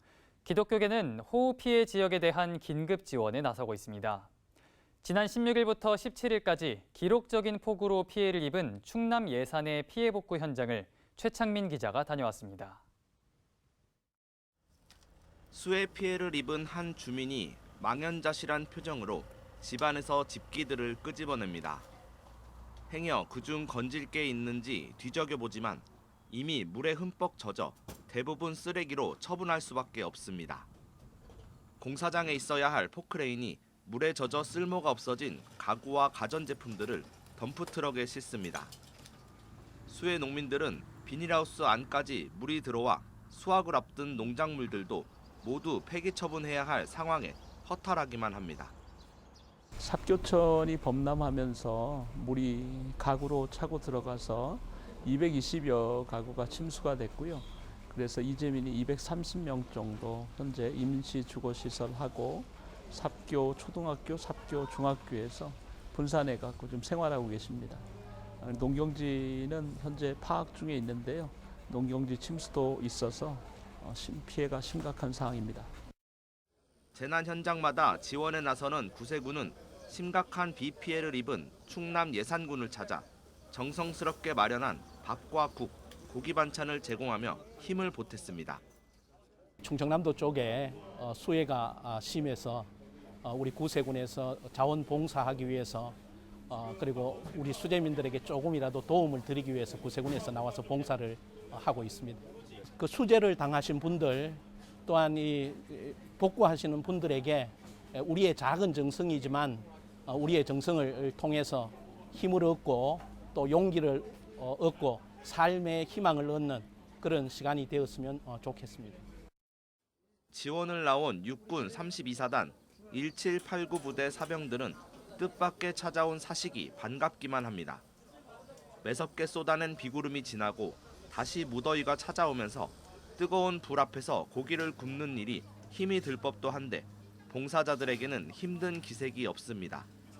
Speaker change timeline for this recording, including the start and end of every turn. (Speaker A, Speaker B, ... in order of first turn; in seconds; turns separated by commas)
Speaker A: 0.4-4.3, Speaker A: 5.0-12.8, Speaker B: 15.5-21.9, Speaker B: 22.9-30.7, Speaker B: 31.8-38.7, Speaker B: 39.9-48.7, Speaker C: 49.8-67.8, Speaker C: 68.4-75.7, Speaker B: 76.9-88.6, Speaker D: 89.6-92.7, Speaker D: 93.2-96.0, Speaker D: 96.5-102.2, Speaker D: 102.8-119.0, Speaker B: 120.3-127.8, Speaker B: 128.8-139.9